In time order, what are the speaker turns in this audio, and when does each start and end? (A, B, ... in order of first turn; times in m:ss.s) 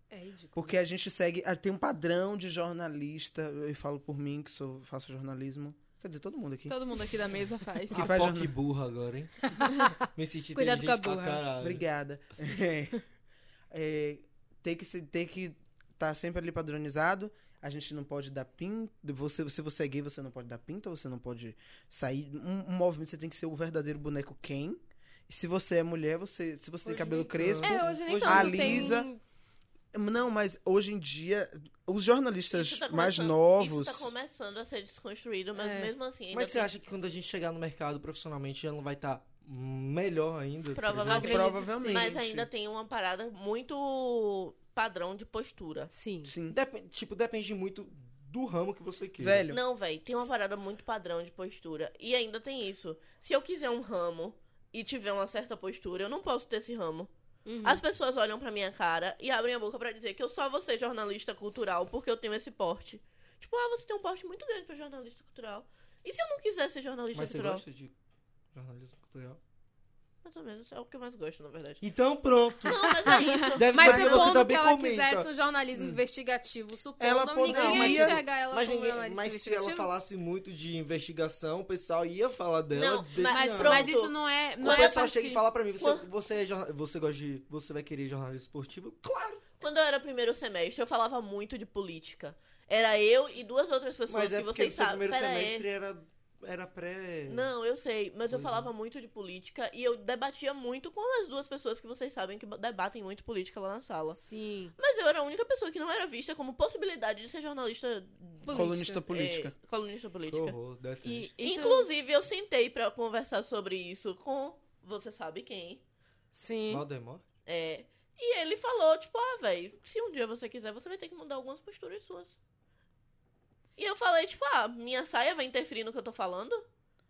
0:00.1-0:00.8 A
0:00.6-0:06.8 B
0:06.7-0:08.1 C
0:07.9-0:09.3 D
0:07.9-0:08.5 B
0:09.5-0:09.9 A
0:10.2-0:11.8 D
0:10.5-0:11.4 A
0:11.6-0:13.0 B
0:13.7-0:29.1 B
0:26.9-0:29.0 D
0:27.6-0:29.2 A
0:29.9-0:34.1 B
0:32.5-0:36.7 E
0:35.6-0:35.9 A
0:36.3-0:41.4 D
0:40.7-0:45.9 E
0:41.1-0:42.1 A
0:41.1-0:42.5 B
0:45.9-0:46.3 A
0:46.2-0:46.6 B
0:46.5-0:49.5 D
0:49.2-0:49.6 B
0:49.5-0:57.1 E
0:57.5-0:57.8 A
0:57.6-1:07.6 E
1:07.1-1:07.9 D
1:08.5-1:09.4 D
1:10.2-1:11.8 E
1:11.8-1:12.8 D
1:12.7-1:14.3 E
1:12.8-1:19.9 A
1:13.4-1:15.3 D
1:15.8-1:16.0 B
1:17.0-1:18.2 B
1:17.5-1:23.9 D
1:22.7-1:25.0 E
1:23.3-1:25.4 C
1:24.6-1:29.4 D
1:25.8-1:26.1 E
1:29.6-1:35.6 E
1:34.1-1:37.5 D
1:37.3-1:44.2 E
1:38.3-1:38.7 D
1:44.2-1:44.7 A
1:44.8-1:50.6 E
1:48.4-1:49.0 A
1:48.5-1:49.5 B
1:50.3-1:51.3 D
1:51.0-1:51.9 C
1:51.4-1:55.8 E
1:56.3-1:56.8 A
1:56.7-1:57.2 D
1:57.5-2:02.4 E
2:03.8-2:06.6 E